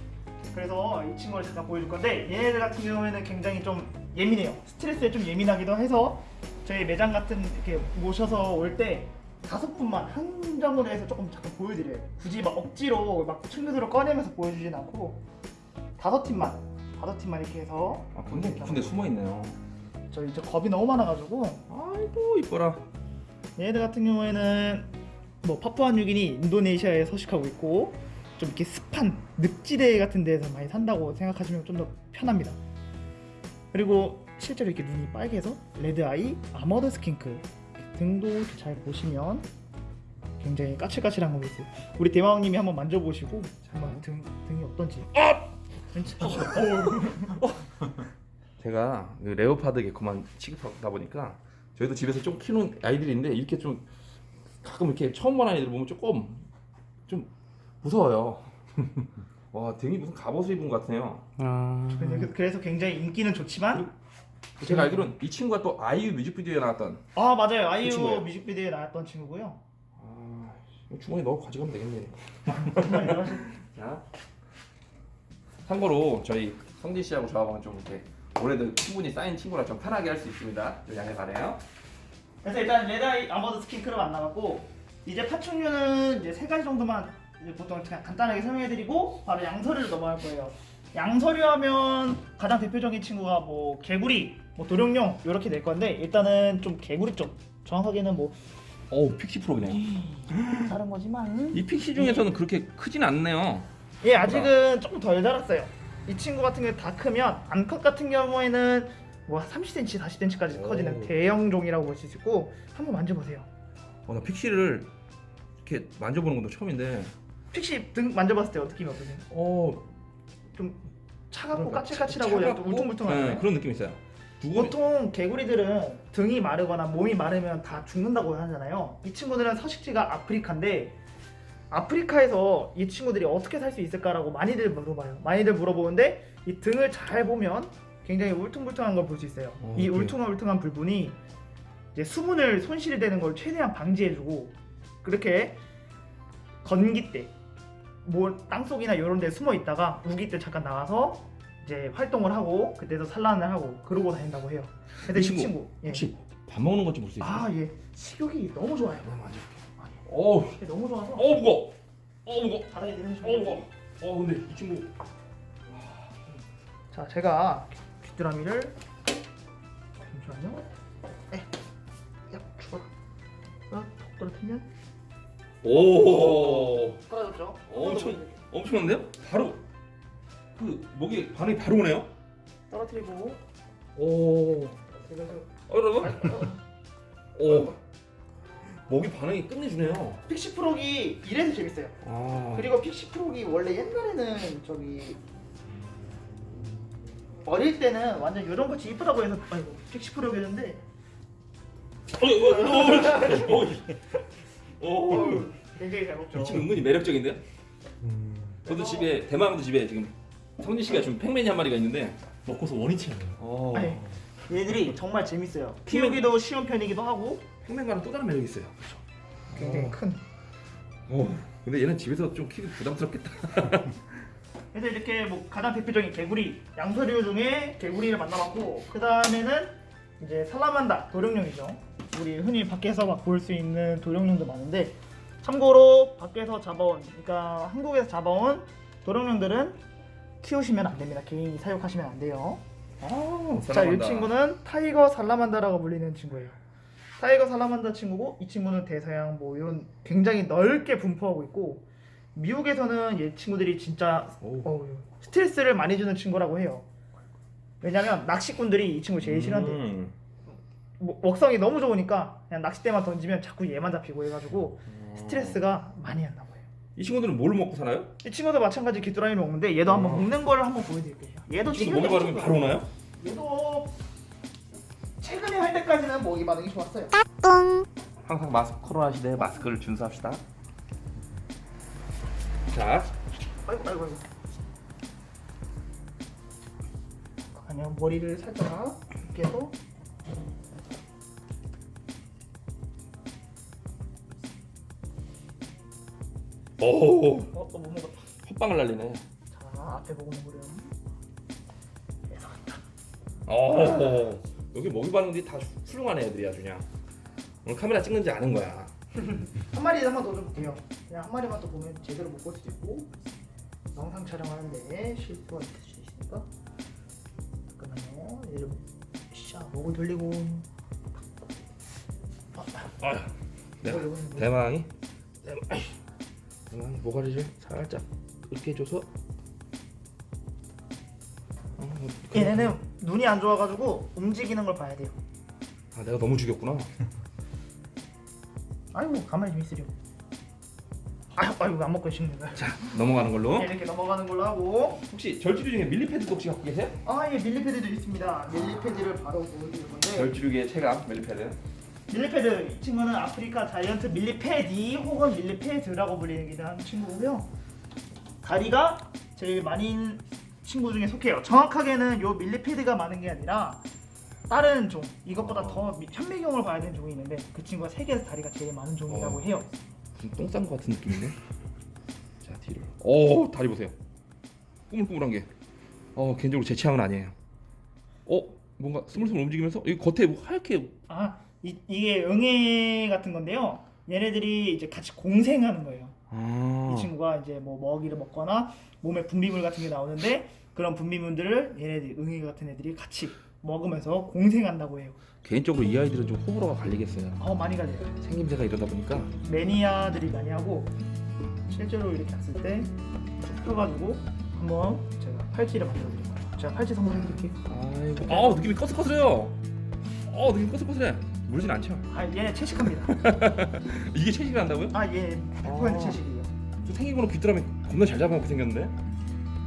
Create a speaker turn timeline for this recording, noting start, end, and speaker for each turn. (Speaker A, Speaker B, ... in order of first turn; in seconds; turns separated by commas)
Speaker A: 0.5-15.2, Speaker A: 16.0-19.1, Speaker B: 18.1-19.6, Speaker A: 20.1-21.6, Speaker B: 21.7-22.8, Speaker A: 23.6-24.9, Speaker A: 25.4-32.6, Speaker A: 33.7-39.5, Speaker A: 40.4-45.2, Speaker B: 43.8-44.0, Speaker B: 45.2-45.5, Speaker A: 45.9-47.4, Speaker B: 46.2-48.0, Speaker B: 48.6-53.9, Speaker B: 54.6-56.5, Speaker B: 57.8-61.3, Speaker C: 61.4-62.1, Speaker A: 61.9-63.9, Speaker B: 64.6-67.0, Speaker A: 64.6-65.2, Speaker A: 67.1-69.6, Speaker B: 67.8-68.3, Speaker B: 70.0-74.0, Speaker A: 72.5-73.5, Speaker B: 75.7-81.6, Speaker A: 82.4-98.4, Speaker B: 98.9-100.7, Speaker A: 100.0-102.3, Speaker B: 101.5-103.7, Speaker A: 104.0-113.5, Speaker B: 104.2-104.5, Speaker B: 110.5-111.1, Speaker B: 114.1-114.9, Speaker B: 115.6-117.1, Speaker A: 117.5-119.2, Speaker B: 119.3-119.8, Speaker A: 120.5-123.5, Speaker B: 121.5-124.8, Speaker A: 124.5-130.9, Speaker A: 131.7-141.2, Speaker B: 139.6-140.1, Speaker A: 141.9-145.6, Speaker A: 146.6-147.3, Speaker A: 148.0-156.1, Speaker B: 155.1-157.5, Speaker A: 157.2-159.2, Speaker B: 159.0-160.6, Speaker A: 159.8-161.3, Speaker B: 161.1-162.7, Speaker A: 162.7-163.7, Speaker B: 163.2-164.9, Speaker B: 165.7-166.1, Speaker A: 166.9-168.8, Speaker A: 170.0-170.7, Speaker A: 172.3-172.9, Speaker A: 173.7-174.7, Speaker B: 175.6-177.0, Speaker A: 175.7-178.4, Speaker B: 177.7-179.6, Speaker B: 180.6-182.1, Speaker A: 182.7-183.4, Speaker B: 183.9-184.8, Speaker A: 185.0-186.6, Speaker B: 185.7-186.4, Speaker B: 187.4-187.8, Speaker A: 187.4-187.7, Speaker B: 188.6-190.2, Speaker A: 190.2-192.0, Speaker B: 192.0-192.7, Speaker A: 192.5-195.2, Speaker A: 197.4-200.8, Speaker B: 202.1-204.1, Speaker A: 202.7-203.5, Speaker B: 204.8-205.5, Speaker A: 205.0-206.7, Speaker B: 206.3-207.4, Speaker C: 208.1-208.6, Speaker B: 208.6-214.1, Speaker A: 208.7-209.1, Speaker C: 212.5-213.2, Speaker A: 213.7-217.5, Speaker B: 215.9-216.3, Speaker B: 217.6-219.0, Speaker B: 219.5-220.0, Speaker A: 219.5-220.2, Speaker B: 221.1-224.1, Speaker A: 224.7-239.8, Speaker A: 240.4-242.6, Speaker B: 243.0-244.3, Speaker A: 243.5-246.6, Speaker A: 247.2-256.9, Speaker B: 254.4-254.7, Speaker A: 257.8-259.8, Speaker B: 259.2-260.1, Speaker A: 261.0-266.7, Speaker B: 264.9-265.6, Speaker B: 266.9-268.1, Speaker A: 268.2-273.9, Speaker B: 269.9-270.3, Speaker B: 271.7-272.9, Speaker A: 275.2-277.2, Speaker B: 278.2-280.4, Speaker B: 282.7-283.1, Speaker A: 283.7-284.2, Speaker A: 287.5-289.7, Speaker B: 296.8-297.6, Speaker A: 297.5-298.2, Speaker B: 298.4-299.2, Speaker A: 299.5-300.9, Speaker A: 302.3-302.8, Speaker B: 303.5-306.8, Speaker B: 307.6-308.9, Speaker A: 309.3-313.1, Speaker A: 313.9-316.5, Speaker A: 317.7-320.7, Speaker B: 322.8-324.9, Speaker A: 323.8-324.5, Speaker B: 325.4-326.0, Speaker B: 326.7-329.1, Speaker B: 331.8-332.8, Speaker A: 332.3-335.2, Speaker B: 335.9-336.9, Speaker A: 338.9-339.9, Speaker A: 341.3-342.9, Speaker B: 342.6-343.7, Speaker A: 343.5-345.0, Speaker B: 345.0-346.9, Speaker A: 347.0-350.3, Speaker B: 350.1-351.6, Speaker A: 352.1-357.5, Speaker A: 358.4-363.8, Speaker A: 364.5-369.7, Speaker B: 365.4-365.9, Speaker B: 369.1-369.5, Speaker B: 370.2-371.4, Speaker B: 372.4-373.9, Speaker B: 374.9-375.5, Speaker B: 376.2-377.3, Speaker B: 378.3-380.9, Speaker A: 381.1-386.2, Speaker B: 386.3-387.1, Speaker A: 386.9-395.2, Speaker B: 395.4-397.4, Speaker A: 397.4-398.1, Speaker B: 398.2-399.3, Speaker A: 399.4-400.9, Speaker A: 401.7-407.6, Speaker B: 407.6-409.6, Speaker A: 408.2-408.7, Speaker B: 410.2-412.1, Speaker A: 412.1-413.2, Speaker B: 413.1-415.0, Speaker A: 414.9-416.5, Speaker B: 415.6-416.2, Speaker B: 416.8-418.9